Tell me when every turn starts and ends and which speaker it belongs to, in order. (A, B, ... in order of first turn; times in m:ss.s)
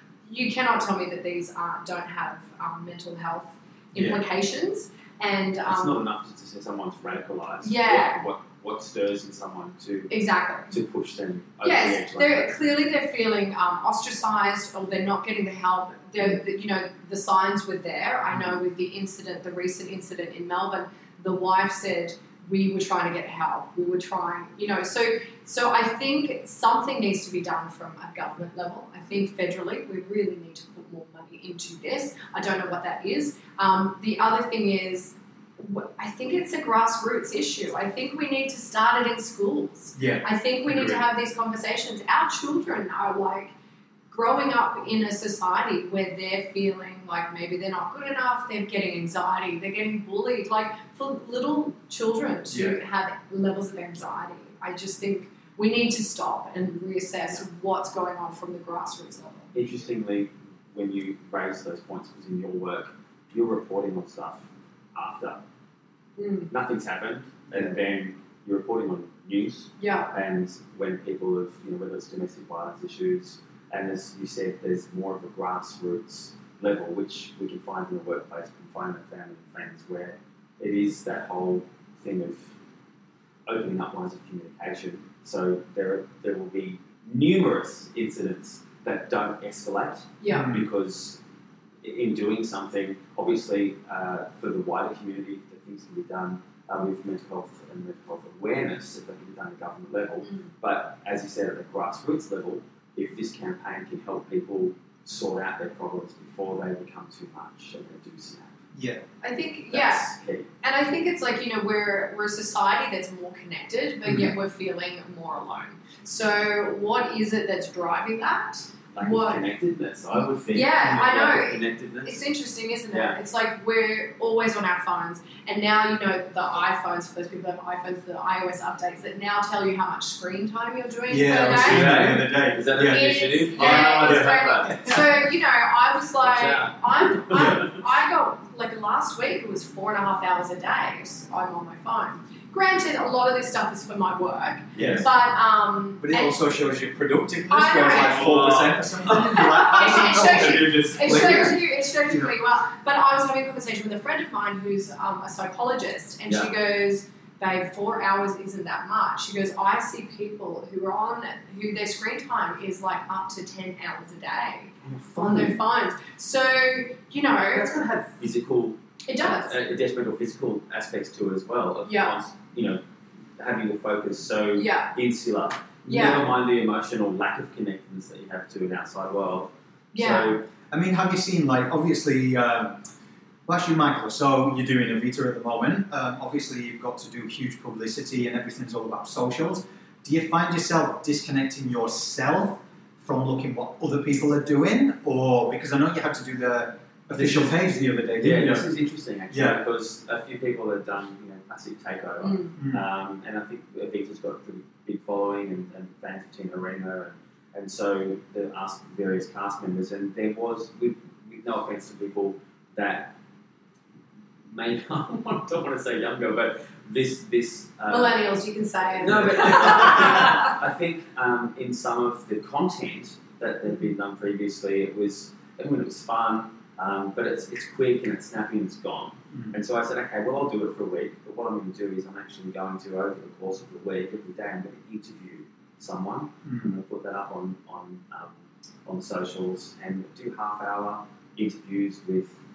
0:00.2-0:06.0 A
0:03.9-0:04.2 B
0:05.7-0:10.1 C
0:07.6-0:08.3 A
0:10.1-0:10.7 A
0:10.7-0:12.5 C
0:11.6-0:43.5 A
0:40.0-0:41.0 B
0:44.1-0:59.5 A
0:52.5-0:52.8 B
0:59.5-1:05.4 C
1:06.2-1:06.5 A
1:06.5-1:22.6 C
1:09.8-1:10.1 A
1:23.5-1:31.2 C
1:30.2-1:30.5 A
1:30.3-1:30.7 B
1:31.8-1:48.6 C
1:40.2-1:40.5 A
1:48.8-1:49.0 B
1:49.2-1:50.1 A
1:49.7-1:50.5 C
1:50.6-1:59.4 A
1:54.1-1:54.3 B
1:59.0-2:02.2 C
2:00.5-2:26.4 A
2:02.9-2:03.2 C
2:11.1-2:15.1 B
2:11.5-2:14.9 C
2:16.2-2:17.8 C
2:17.3-2:17.6 B
2:24.7-2:25.1 C
2:24.8-2:25.1 B
2:26.0-2:32.3 B
2:27.5-2:28.5 A
2:28.0-2:29.2 C
2:29.1-2:47.7 A
2:29.7-2:31.5 C
2:36.3-2:36.5 C
2:44.8-2:45.6 C
2:47.4-2:52.8 C
2:49.1-2:49.6 A
2:51.9-2:52.1 A
2:53.4-3:00.4 C
2:54.6-2:54.9 A
2:55.9-2:56.3 A
2:59.9-3:00.4 A
3:00.7-3:02.8 B
3:03.5-3:18.7 B
3:17.1-3:17.6 C
3:18.1-3:33.2 C
3:19.3-3:19.6 B
3:22.2-3:22.6 A
3:22.6-3:22.8 B
3:34.5-3:38.2 C
3:37.9-3:40.5 A
3:38.9-4:02.4 C
3:39.4-3:40.2 B
3:56.4-3:56.8 B